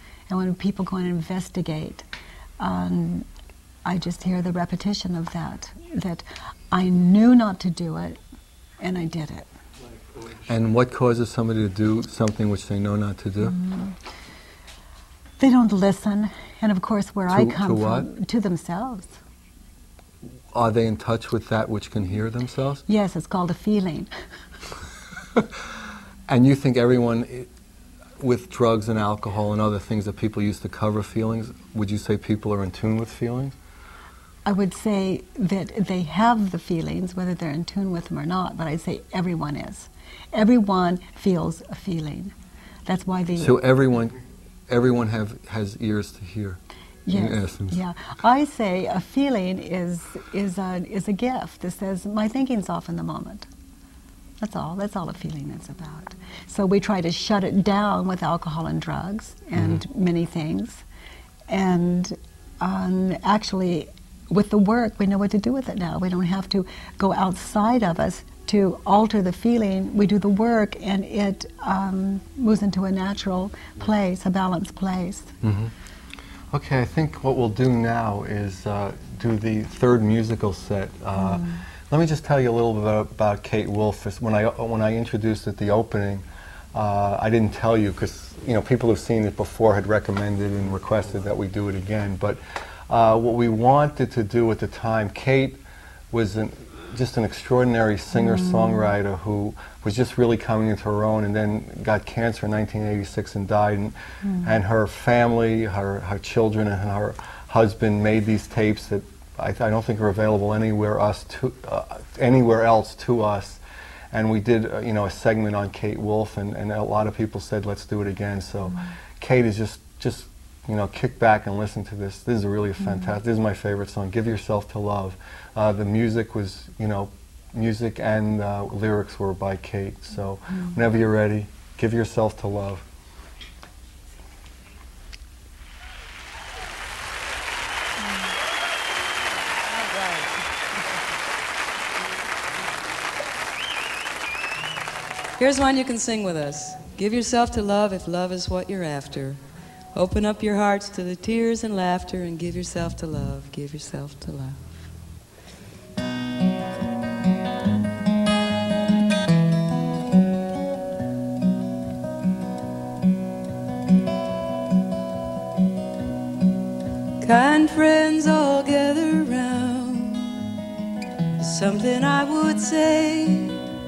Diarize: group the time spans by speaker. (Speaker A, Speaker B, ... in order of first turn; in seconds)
Speaker A: 0.3-2.1, 2.6-3.3, 3.9-8.2, 8.8-9.5, 13.5-13.9, 15.4-19.2, 22.9-24.1, 34.5-42.3, 42.9-43.6, 47.1-53.5, 54.4-60.8, 61.5-75.4, 81.2-81.6, 98.2-98.9
Speaker B: 10.4-13.6, 17.3-18.1, 20.5-22.8, 25.3-25.7, 26.3-27.5, 28.2-33.5, 43.4-47.8, 59.6-59.8, 75.4-75.7, 76.5-132.8
Speaker C: 139.8-140.4, 145.4-149.4, 149.9-154.7, 167.2-170.4, 171.4-173.7